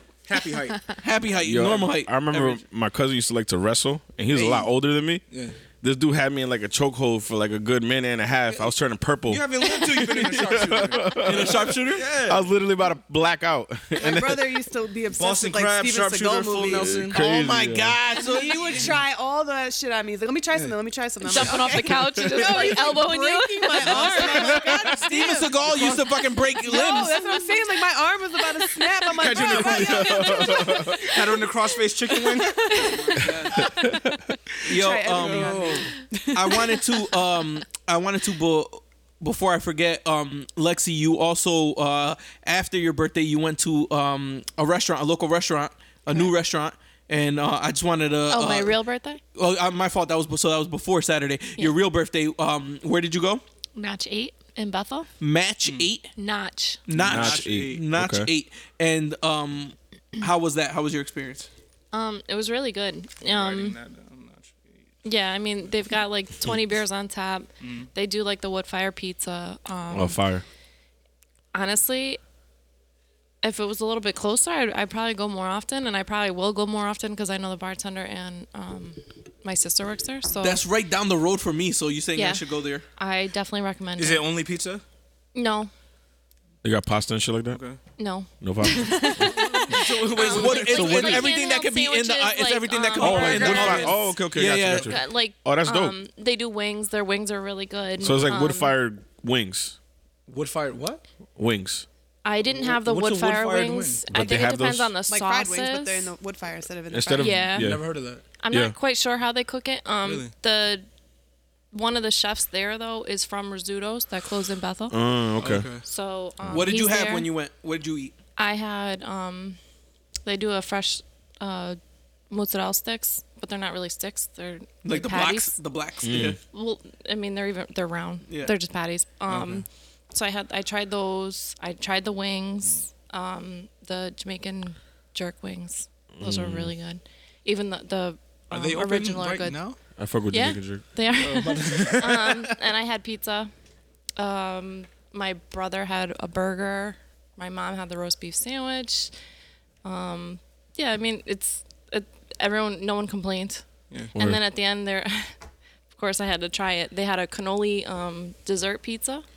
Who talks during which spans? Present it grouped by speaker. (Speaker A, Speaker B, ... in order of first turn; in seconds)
Speaker A: 0.2-0.9, 4.3-4.6, 5.3-5.5, 9.3-12.4, 15.1-17.2, 22.5-22.8, 23.9-24.6, 25.6-26.0, 29.1-33.7, 34.6-36.0, 55.6-55.9, 56.9-57.8, 63.2-64.9, 67.6-67.9, 84.0-84.8, 87.5-87.8, 89.0-91.2, 100.3-101.0, 102.5-104.0, 107.5-108.2, 110.0-110.3, 115.4-115.8, 129.3-129.6, 138.5-139.8, 141.1-142.6, 153.9-154.2
Speaker B: 0.9-2.6, 11.2-12.1, 17.1-18.8, 23.9-27.2, 32.6-33.7, 34.6-48.8, 49.3-53.4, 55.2-56.1, 56.9-61.5, 80.4-82.8, 89.9-94.9, 116.5-118.2, 124.8-126.4, 128.3-128.5
Speaker C: 1.4-5.2, 5.8-11.7, 12.2-14.5, 16.6-18.0, 29.6-31.1, 33.6-34.0, 57.0-58.3, 69.9-70.4, 86.6-87.6, 88.4-89.6, 90.8-91.3, 93.0-95.9, 98.0-99.8, 101.3-101.8, 104.1-104.9, 106.9-107.9, 114.9-115.7, 126.0-126.4, 136.1-136.7, 140.0-140.8, 154.1-154.5
Speaker D: 13.9-17.1, 18.2-26.0, 26.6-31.1, 34.7-36.8, 105.1-107.6
Speaker E: 21.2-24.9, 26.7-27.7, 28.6-31.4, 32.1-34.4, 48.3-49.2, 53.8-55.1, 56.1-56.8, 61.9-63.8, 65.0-70.2, 71.5-72.2, 73.4-80.6, 82.1-82.4, 83.0-84.3, 85.3-85.7, 88.0-94.2, 94.8-98.8, 102.2-106.1, 107.2-107.7, 108.4-110.8, 111.7-115.0, 115.8-117.3, 118.4-119.6, 120.2-121.8, 122.3-125.5, 126.5-139.6, 140.3-143.5, 144.2-149.1, 149.8-155.3, 155.9-159.2